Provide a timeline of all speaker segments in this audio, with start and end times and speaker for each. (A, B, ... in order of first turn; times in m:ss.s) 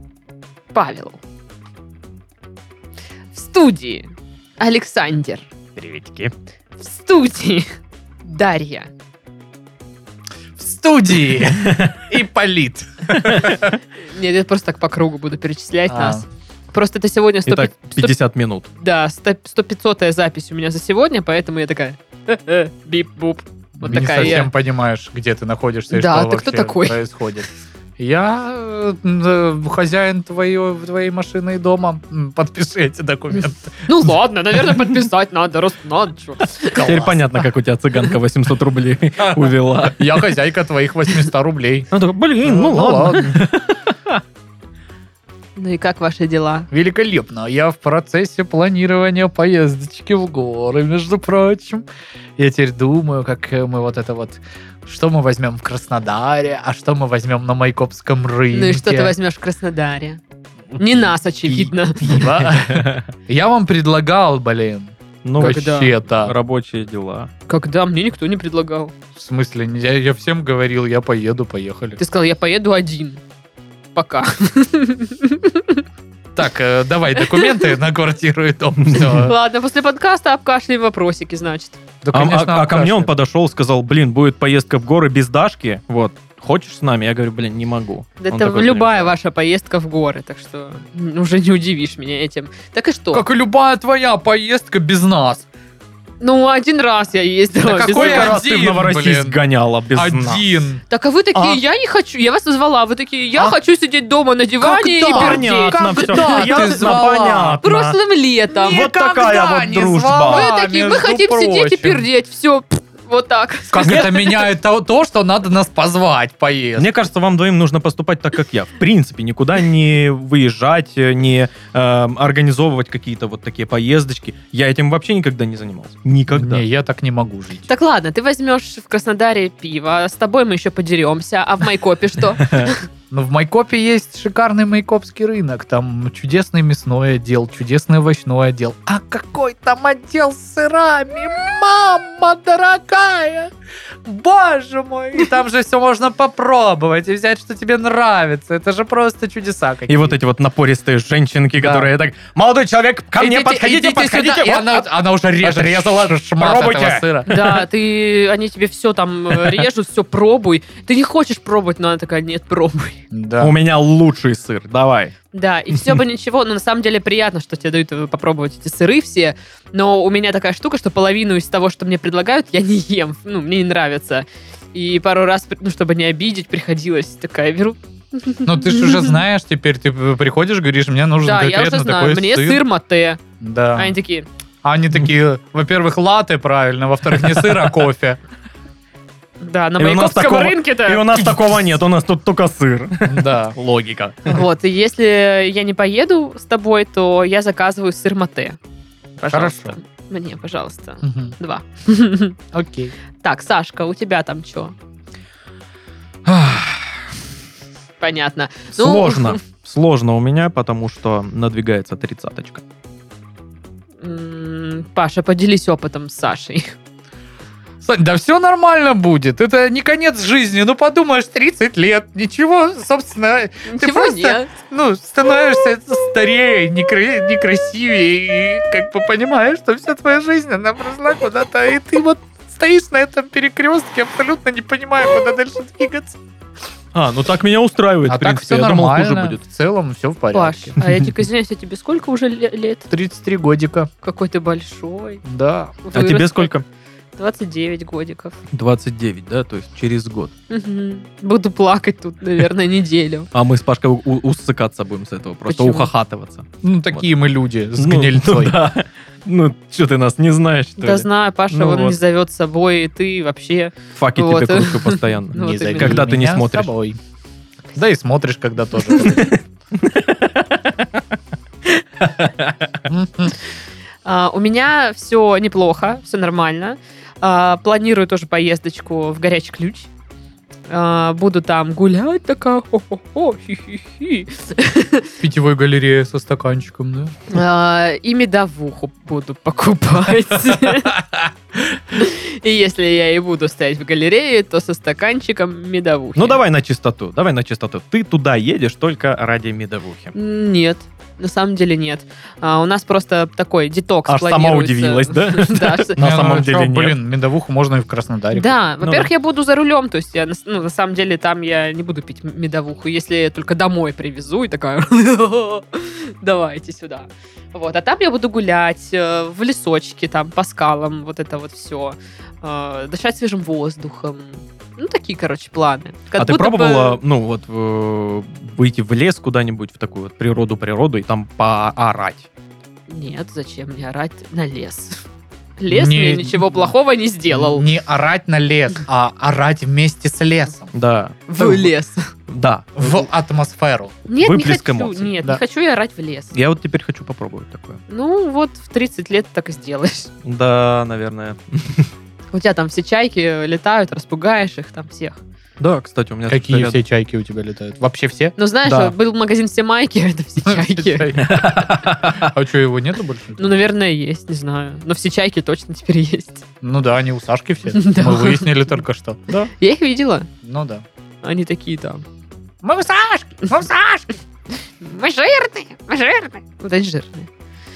0:00.7-0:01.2 A
0:03.3-0:05.5 A
0:05.8-0:06.3 B
0:06.8-0:07.7 A
0:08.2-0:08.9 A
0:10.6-0:13.7 C
0:11.6-0:11.9 B
0:13.2-0:13.6 B
0:14.1-0:18.2 A
0:15.9-0:16.2 C
0:17.5-0:18.7 B
0:18.8-0:24.5 A
0:23.8-0:33.8 C
0:25.9-0:27.0 A
0:33.3-0:36.8 A
0:36.7-0:37.5 C
0:36.8-0:40.2 B
0:39.9-0:41.9 C
0:41.9-0:44.2 B
0:42.4-0:43.4 C
0:45.6-0:46.7 A
0:46.7-0:51.8 C
0:52.4-0:59.1 C
0:58.5-1:00.2 A
1:00.8-1:02.3 A
1:01.6-1:03.0 B
1:02.0-1:06.4 C
1:05.2-1:07.3 B
1:05.4-1:06.0 A
1:07.5-1:08.9 A
1:09.2-1:12.0 C
1:12.0-1:13.2 A
1:14.0-1:15.8 A
1:16.4-1:19.4 C
1:17.2-1:17.6 A
1:18.9-1:21.8 A
1:22.0-1:23.1 C
1:22.1-1:29.1 B
1:28.2-1:33.2 A
1:33.1-1:35.5 C
1:36.2-1:38.4 A
1:37.6-1:39.4 C
1:37.8-1:40.4 B
1:39.9-1:40.8 C
1:40.9-1:47.0 A
1:41.3-1:41.6 B
1:44.6-1:47.6 C
1:45.0-1:48.0 B
1:47.6-1:48.9 A
1:48.6-1:52.1 C
1:48.7-1:50.5 B
1:50.3-1:54.4 A
1:53.7-1:56.9 C
1:53.8-1:54.3 B
1:56.8-2:06.6 B
2:06.3-2:07.7 C
2:07.7-2:12.9 A
2:12.4-2:12.7 B
2:13.1-2:23.5 C
2:24.0-2:30.2 C
2:29.9-2:34.8 B
2:31.6-2:31.9 C
2:33.2-2:37.5 C
2:35.4-2:37.6 B
2:37.3-2:43.0 A
2:43.1-2:43.6 C
2:43.4-2:45.1 B
2:45.3-2:59.2 A
2:58.4-3:02.6 C
3:01.2-3:03.2 A
3:03.4-3:04.0 C
3:03.8-3:04.3 A
3:04.6-3:08.2 C
3:09.4-3:11.4 A
3:09.8-3:14.4 B
3:13.1-3:13.6 C
3:14.3-3:18.6 A
3:19.2-3:22.4 A
3:19.3-3:19.8 C
3:21.0-3:21.3 C
3:22.5-3:22.9 C
3:23.2-3:24.8 A
3:26.3-3:26.8 C
3:28.0-3:29.4 A
3:28.8-3:32.6 B
3:34.0-3:36.8 A
3:37.8-3:56.2 C
3:43.7-3:44.5 A
3:56.9-3:59.4 B
3:58.1-4:00.8 C
4:00.3-4:02.9 A
4:02.9-4:03.9 C
4:04.0-4:05.2 A
4:05.2-4:05.8 C
4:05.8-4:06.5 A
4:05.9-4:06.6 B
4:07.2-4:08.4 A
4:08.5-4:10.3 B
4:10.5-4:13.3 A
4:13.3-4:17.0 B
4:15.5-4:15.9 A
4:16.6-4:18.6 C
4:17.8-4:22.0 B
4:20.8-4:26.1 A
4:24.0-4:26.7 B
4:25.4-4:27.0 C
4:27.8-4:29.4 C
4:29.0-4:31.0 B
4:32.0-4:32.8 B
4:32.9-4:33.4 C
4:34.0-4:39.9 A
4:40.7-4:45.2 A
4:45.2-4:47.2 C
4:47.3-4:51.0 A
4:51.9-4:56.4 A
4:56.2-5:00.1 B
5:00.1-5:06.0 A
5:04.1-5:07.0 B
5:06.0-5:08.5 C
5:08.3-5:27.0 A
5:08.8-5:09.1 B
5:26.2-5:32.3 B
5:32.9-5:35.0 A
5:35.6-5:37.7 A
5:35.7-5:36.7 C
5:37.3-5:40.7 C
5:40.7-5:41.7 B
5:41.3-5:42.1 A
5:42.3-5:43.0 B
5:42.8-5:44.0 C
5:44.1-5:46.3 A
5:44.2-5:45.1 B
5:46.3-5:47.8 B
5:47.9-5:50.1 A
5:50.2-5:51.9 B
5:52.3-5:55.2 A
5:55.6-5:56.8 B
5:56.3-5:58.4 C
5:58.4-6:01.2 A
5:58.6-5:58.9 B
6:00.4-6:03.5 C
6:01.2-6:02.3 B
6:03.4-6:06.4 A
6:06.6-6:09.5 C
6:07.7-6:08.6 A
6:09.5-6:10.3 A
6:10.4-6:10.8 C
6:11.2-6:12.0 A
6:12.6-6:14.1 C
6:14.8-6:17.3 A